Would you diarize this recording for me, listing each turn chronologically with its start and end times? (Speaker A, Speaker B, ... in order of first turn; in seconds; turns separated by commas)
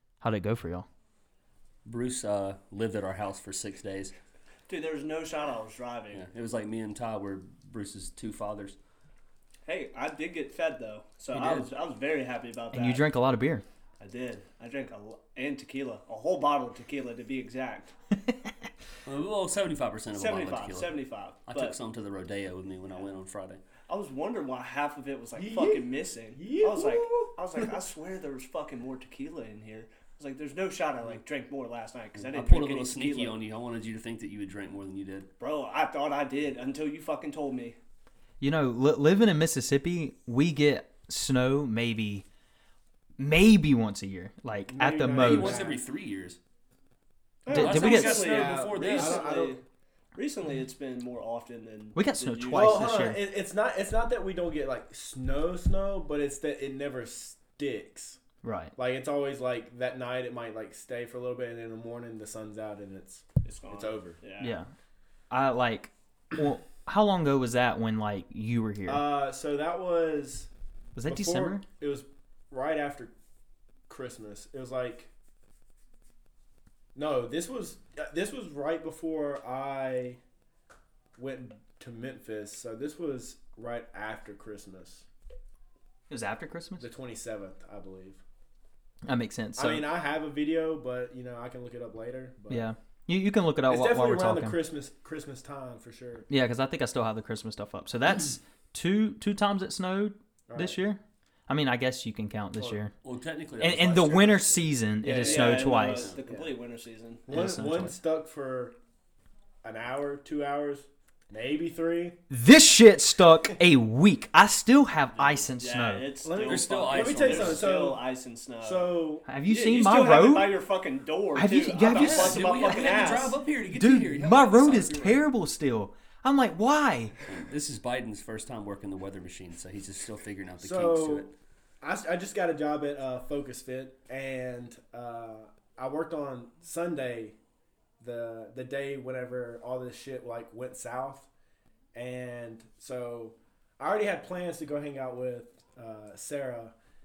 Speaker A: 0.2-0.9, Speaker B: 1.9-4.1, Speaker C: 4.7-6.3, Speaker B: 6.1-8.8, Speaker C: 9.7-13.1, Speaker B: 11.3-11.7, Speaker A: 12.7-13.7, Speaker C: 14.0-17.9, Speaker B: 19.1-23.6, Speaker C: 20.1-21.8, Speaker C: 23.9-33.4, Speaker D: 25.4-27.7, Speaker B: 32.2-35.3, Speaker C: 35.4-37.8, Speaker A: 38.4-42.3, Speaker A: 43.2-45.6, Speaker D: 44.7-45.8, Speaker B: 45.1-46.4, Speaker D: 47.5-49.6, Speaker B: 47.5-49.2, Speaker A: 47.5-48.1, Speaker C: 47.7-49.6, Speaker C: 50.1-52.9, Speaker A: 52.0-53.2, Speaker D: 52.5-58.2, Speaker A: 58.4-58.7, Speaker D: 58.8-64.2, Speaker C: 63.5-64.6, Speaker A: 64.4-64.7, Speaker A: 65.3-69.1, Speaker D: 68.9-70.5, Speaker A: 71.0-71.6, Speaker D: 71.0-73.1, Speaker D: 73.9-75.1, Speaker D: 77.0-80.2, Speaker D: 81.2-85.1, Speaker A: 86.1-86.9, Speaker D: 86.8-88.2, Speaker A: 89.1-89.9, Speaker D: 89.6-92.7, Speaker A: 92.5-94.6, Speaker D: 93.7-96.3, Speaker A: 96.3-102.9, Speaker D: 100.5-100.8, Speaker D: 102.6-102.8, Speaker B: 103.0-104.6, Speaker A: 103.6-106.1, Speaker D: 105.0-106.5, Speaker C: 105.2-107.3, Speaker B: 105.7-106.2, Speaker D: 107.3-108.8, Speaker A: 107.3-108.0, Speaker D: 109.6-112.2, Speaker A: 112.3-116.1, Speaker B: 115.2-115.4, Speaker C: 115.6-118.9, Speaker D: 116.2-118.0, Speaker B: 116.4-117.7, Speaker D: 118.6-119.3, Speaker A: 119.3-120.6, Speaker C: 119.5-123.1, Speaker A: 121.4-122.4, Speaker B: 121.9-125.3, Speaker D: 122.0-123.4, Speaker A: 123.7-127.2, Speaker B: 127.3-131.3, Speaker D: 130.6-131.3, Speaker D: 131.8-137.4, Speaker D: 138.0-141.3, Speaker D: 141.9-146.7